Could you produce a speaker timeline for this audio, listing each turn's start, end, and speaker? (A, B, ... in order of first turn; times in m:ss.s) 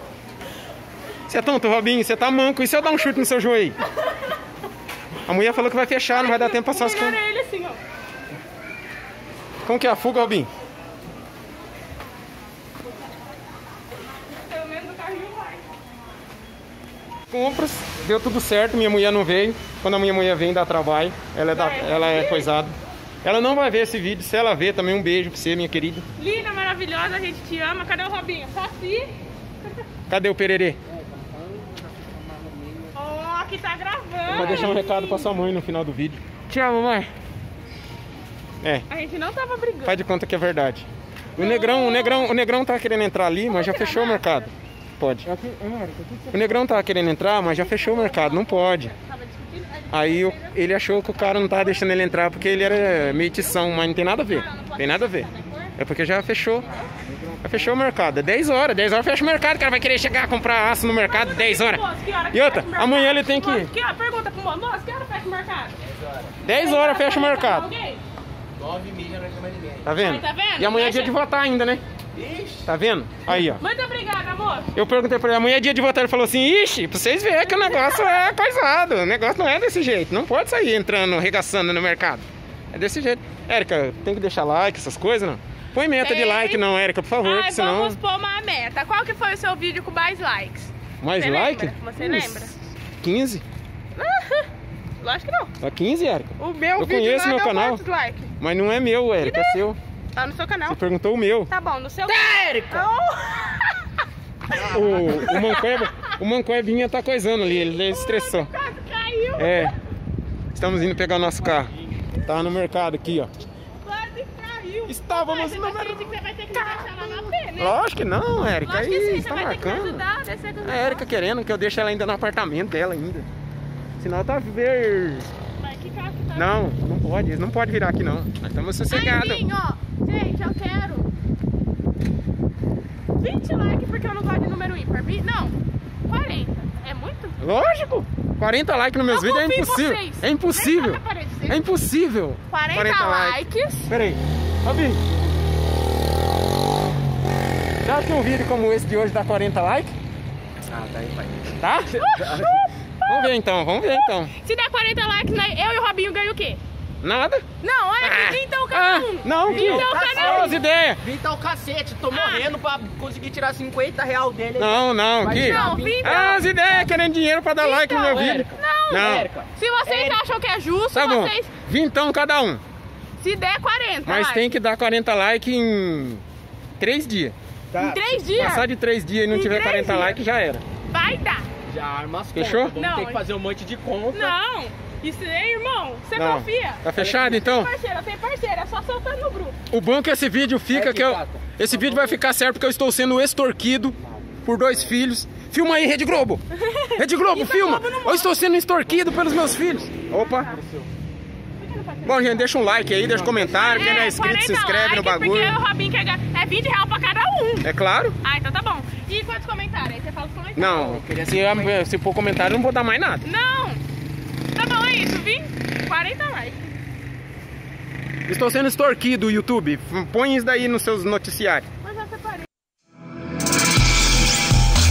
0:01.3-0:03.8 A
0:05.2-0:07.2 A
0:06.1-0:07.8 B
0:09.6-0:10.5 A
0:14.1-0:15.6 B
0:17.3-0:26.0 A
0:21.5-0:22.5 B
0:26.2-0:29.8 B
0:30.1-0:30.8 A
0:30.9-0:33.0 C
0:32.9-0:35.4 B
0:34.3-0:34.8 C
0:34.3-0:36.3 A
0:36.5-0:37.1 C
0:38.9-0:40.0 B
0:39.8-0:45.3 A
0:41.4-0:42.3 B
0:43.4-0:44.5 B
0:45.2-0:46.8 C
0:46.3-0:48.9 A
0:47.4-0:51.8 B
0:49.9-0:56.6 A
0:52.6-0:55.7 B
0:57.4-1:03.7 A
1:01.0-1:05.8 B
1:06.4-1:07.7 A
1:06.4-1:08.0 B
1:08.6-1:09.8 C
1:09.8-1:11.8 A
1:10.0-1:11.1 B
1:12.2-1:12.6 C
1:12.6-1:13.6 A
1:13.6-1:14.7 B
1:14.7-1:28.0 A
1:17.4-1:18.3 B
1:26.0-1:26.6 B
1:27.2-1:32.6 B
1:31.0-1:33.4 A
1:34.0-1:34.5 B
1:35.0-1:35.5 B
1:35.6-1:37.8 A
1:36.4-1:38.3 B
1:38.4-1:39.8 A
1:39.2-1:40.8 B
1:40.6-1:41.5 A
1:41.5-1:43.9 B
1:42.0-1:42.9 C
1:44.5-1:48.5 A
1:44.5-1:46.1 B
1:47.5-1:49.7 B
1:49.4-1:49.7 A
1:50.5-1:51.7 A
1:52.2-1:53.3 A
1:53.8-1:57.8 B
1:54.9-2:00.0 A
1:58.6-2:01.0 B
2:00.6-2:03.3 A
2:04.0-2:05.3 A
2:05.6-2:06.6 B
2:06.3-2:09.4 A
2:08.9-2:11.1 B
2:13.2-2:17.4 B
2:17.4-2:25.0 A
2:19.0-2:21.7 B
2:22.5-2:23.9 B
2:27.8-2:29.9 A
2:30.6-2:31.3 C
2:31.6-2:32.2 A
2:31.9-2:33.3 B
2:32.2-2:32.6 C
2:33.0-2:34.3 A
2:33.8-2:36.6 B
2:37.0-2:37.4 A
2:37.6-2:40.6 B
2:38.0-2:41.0 A
2:39.4-2:46.2 C
2:42.1-2:42.5 B
2:44.6-2:49.3 A
2:45.3-2:47.0 B
2:47.6-2:51.5 B
2:48.1-2:50.2 C
2:50.9-2:52.6 A
2:53.2-2:54.5 B
2:54.0-2:56.2 A
2:56.8-2:57.3 A
2:57.7-2:58.2 C
2:57.8-2:58.7 B
2:58.3-3:00.6 A
2:59.3-3:00.2 B
3:00.8-3:01.5 B
3:01.7-3:04.3 C
3:02.3-3:02.7 A
3:02.7-3:03.2 B
3:04.1-3:09.6 B
3:06.1-3:07.7 A
3:07.0-3:07.3 C
3:09.7-3:16.4 A
3:10.7-3:12.2 C
3:16.6-3:18.4 B
3:16.9-3:20.5 A
3:20.1-3:20.6 B
3:20.5-3:20.9 C
3:21.6-3:22.7 B
3:22.0-3:25.6 A
3:22.9-3:23.7 C
3:23.3-3:27.7 B
3:27.6-3:28.2 A
3:28.2-3:31.0 B
3:30.6-3:33.2 A
3:30.8-3:31.7 C
3:33.2-3:33.8 B
3:34.5-3:36.8 B
3:38.3-3:41.7 A
3:41.8-3:42.4 B